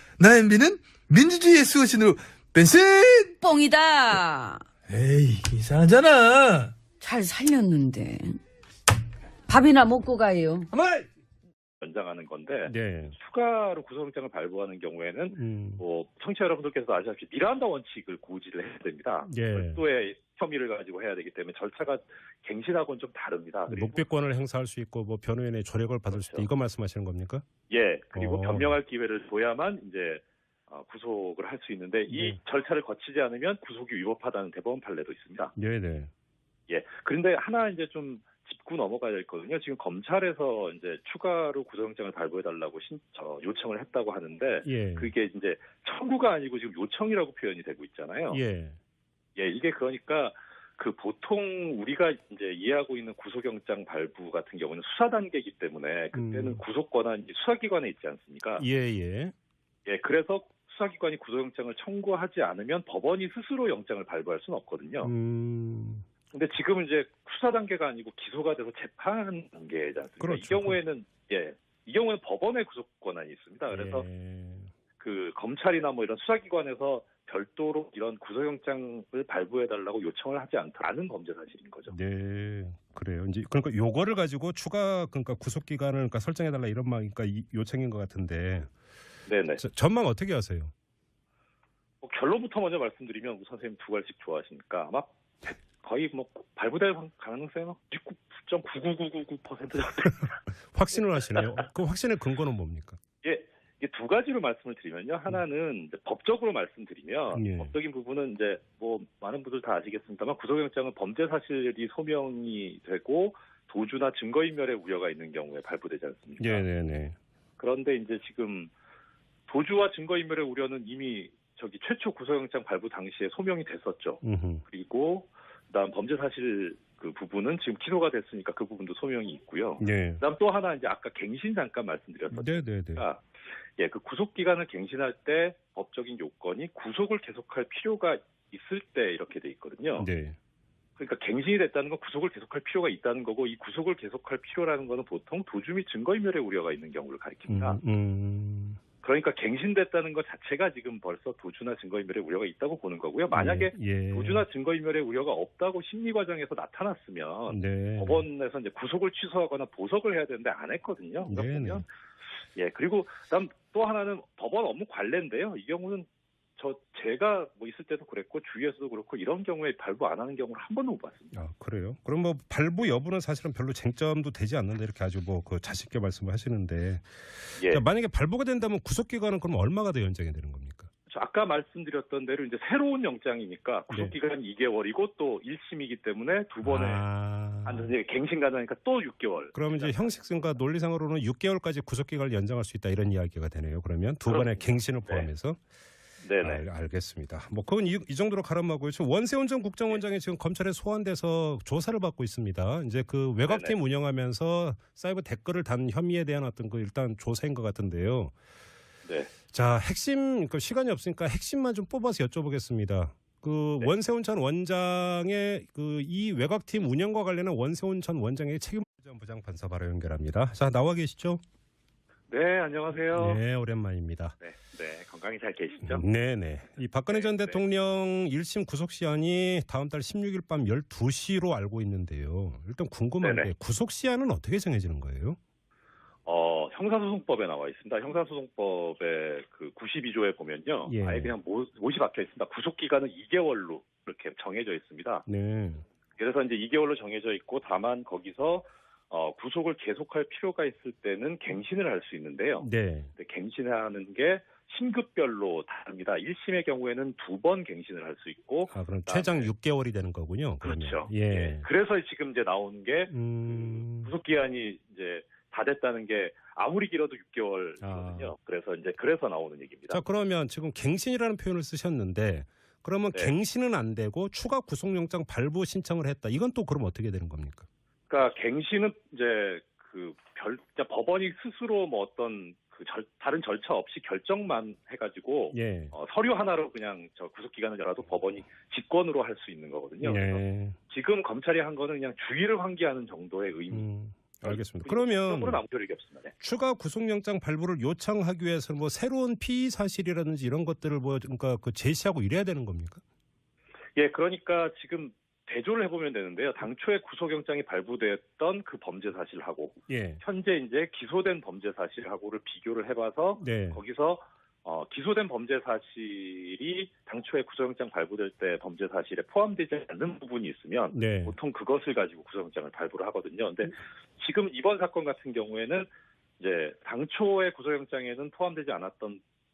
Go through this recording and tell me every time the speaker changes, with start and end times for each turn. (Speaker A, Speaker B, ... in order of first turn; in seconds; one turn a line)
Speaker A: 0.2-3.3
Speaker B: 3.4-4.6
Speaker A: 4.9-6.7
Speaker B: 7.0-8.4
Speaker B: 9.5-10.7
Speaker A: 10.7-11.1
Speaker C: 11.8-24.0
Speaker D: 12.7-13.2
Speaker D: 15.3-15.8
Speaker D: 19.3-19.8
Speaker D: 23.7-27.4
Speaker C: 26.1-26.5
Speaker C: 27.7-35.5
Speaker D: 28.1-28.7
Speaker D: 32.1-32.4
Speaker D: 35.5-36.1
Speaker C: 36.7-48.4
Speaker D: 44.6-45.1
Speaker D: 48.3-48.8
Speaker C: 49.4-58.6
Speaker D: 56.1-56.6
Speaker D: 58.6-59.3
Speaker C: 59.9-65.1
Speaker D: 65.0-66.0
Speaker C: 66.3-74.0
Speaker D: 70.2-70.8
Speaker D: 73.7-74.7
Speaker C: 75.0-81.9
Speaker D: 81.9-88.7
Speaker C: 89.3-89.6
Speaker D: 89.6-90.7
Speaker C: 92.0-100.3
Speaker D: 100.2-103.0
Speaker C: 101.3-101.6
Speaker C: 103.2-116.6
Speaker D: 107.3-107.7
Speaker D: 116.4-117.2
Speaker C: 117.6-118.7
Speaker C: 119.5-133.2
Speaker D: 124.2-124.6
Speaker D: 129.8-130.2
Speaker D: 132.3-133.0
Speaker C: 133.8-140.1
Speaker D: 140.0-140.4
Speaker C: 141.0-147.8
Speaker D: 147.5-148.8
Speaker C: 149.0-161.8
Speaker D: 153.3-154.4
Speaker D: 157.5-158.2
Speaker D: 161.3-161.8
Speaker C: 162.6-166.1
Speaker C: 166.6-171.3
Speaker D: 171.3-180.9
Speaker C: 177.6-177.8
Speaker C: 181.1-187.0
Speaker D: 186.6-187.9
Speaker C: 187.7-190.5
Speaker D: 189.5-195.6
Speaker C: 194.3-195.3
Speaker C: 196.2-196.6
Speaker D: 196.4-208.3
Speaker C: 203.5-203.7
Speaker C: 209.1-209.3
Speaker D: 209.5-221.4
Speaker C: 222.3-223.4
Speaker D: 223.1-224.4
Speaker C: 224.4-226.0
Speaker D: 225.8-235.4
Speaker C: 227.1-227.6
Speaker C: 233.2-233.5
Speaker C: 236.2-245.2
Speaker D: 240.9-241.3
Speaker D: 245.2-245.8
Speaker C: 246.2-259.5
Speaker D: 252.6-253.1
Speaker D: 258.7-261.6
Speaker C: 260.6-270.0
Speaker D: 263.1-264.1
Speaker D: 267.8-268.3
Speaker D: 269.9-277.7
Speaker C: 278.1-293.9
Speaker D: 285.5-285.9
Speaker D: 290.0-290.8
Speaker D: 293.7-295.6
Speaker C: 294.4-296.3
Speaker D: 296.4-303.0
Speaker C: 303.9-325.9
Speaker D: 309.9-310.2
Speaker D: 313.4-313.8
Speaker D: 320.9-321.3
Speaker C: 326.4-329.2